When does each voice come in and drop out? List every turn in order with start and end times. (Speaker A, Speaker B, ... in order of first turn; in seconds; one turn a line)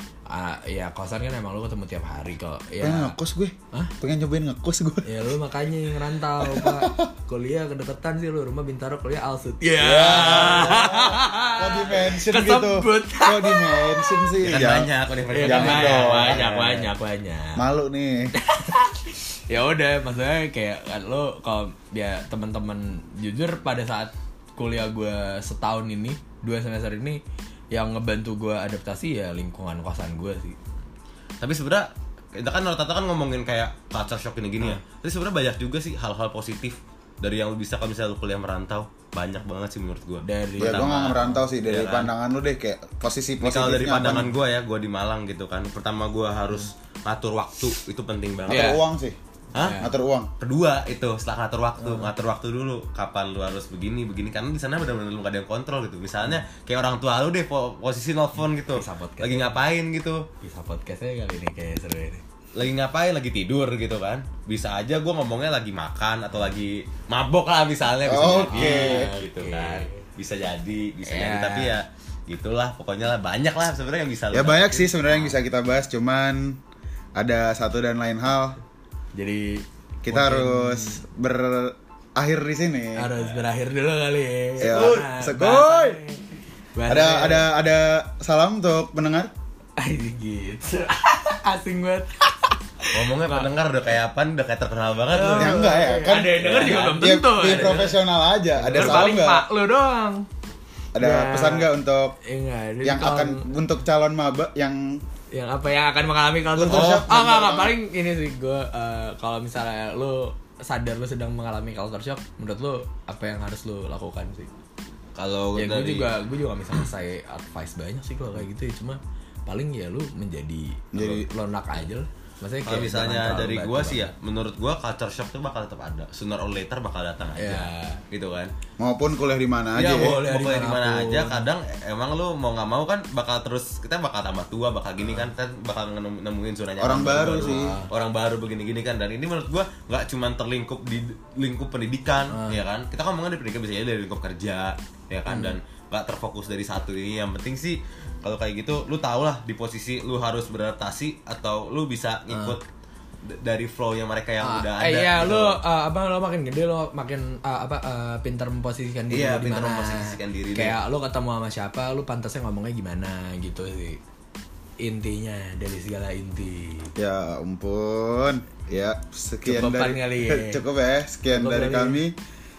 Speaker A: 0.3-3.1
Speaker B: 2.8-5.3
Speaker A: 5.0-14.3
Speaker B: 6.4-7.1
Speaker B: 9.8-16.6
Speaker C: 10.0-10.8
Speaker C: 14.4-16.9
Speaker A: 15.3-17.6
Speaker B: 17.6-18.3
Speaker A: 18.4-27.2
Speaker A: 27.7-30.6
Speaker C: 31.4-42.1
Speaker A: 40.2-41.5
Speaker B: 40.6-44.3
Speaker C: 43.4-48.8
Speaker B: 48.5-49.2
Speaker A: 48.5-48.8
Speaker C: 49.5-49.8
Speaker A: 49.5-49.9
Speaker B: 49.8-50.3
Speaker C: 50.4-60.3
Speaker A: 51.8-52.1
Speaker A: 58.7-59.6
Speaker A: 60.4-62.2
Speaker C: 62.5-74.8
Speaker B: 68.0-69.1
Speaker A: 68.3-70.1
Speaker A: 71.0-71.8
Speaker B: 74.3-76.6
Speaker A: 74.9-75.3
Speaker B: 77.2-78.6
Speaker A: 79.2-81.0
Speaker B: 80.0-83.1
Speaker A: 83.0-87.5
Speaker B: 84.6-86.0
Speaker C: 84.7-85.0
Speaker B: 86.9-89.3
Speaker A: 89.8-93.5
Speaker C: 92.9-95.6
Speaker A: 95.1-98.0
Speaker B: 95.3-99.5
Speaker C: 96.4-97.8
Speaker A: 98.5-100.3
Speaker C: 98.8-99.1
Speaker B: 100.9-102.2
Speaker A: 101.0-101.7
Speaker A: 102.2-103.5
Speaker B: 102.8-105.0
Speaker A: 105.3-114.5
Speaker B: 106.5-107.7
Speaker C: 106.7-107.0
Speaker C: 115.2-116.1
Speaker A: 115.6-124.1
Speaker B: 120.9-121.3
Speaker C: 122.7-128.5
Speaker A: 127.4-128.0
Speaker B: 128.8-130.2
Speaker A: 129.8-131.4
Speaker C: 130.1-152.6
Speaker B: 136.8-137.7
Speaker A: 137.3-137.9
Speaker A: 142.3-142.6
Speaker A: 145.3-145.6
Speaker A: 152.3-152.6
Speaker C: 153.2-155.6
Speaker A: 154.4-164.0
Speaker C: 159.1-160.8
Speaker A: 164.8-166.9
Speaker B: 167.0-172.2
Speaker A: 169.4-170.6
Speaker A: 171.3-172.0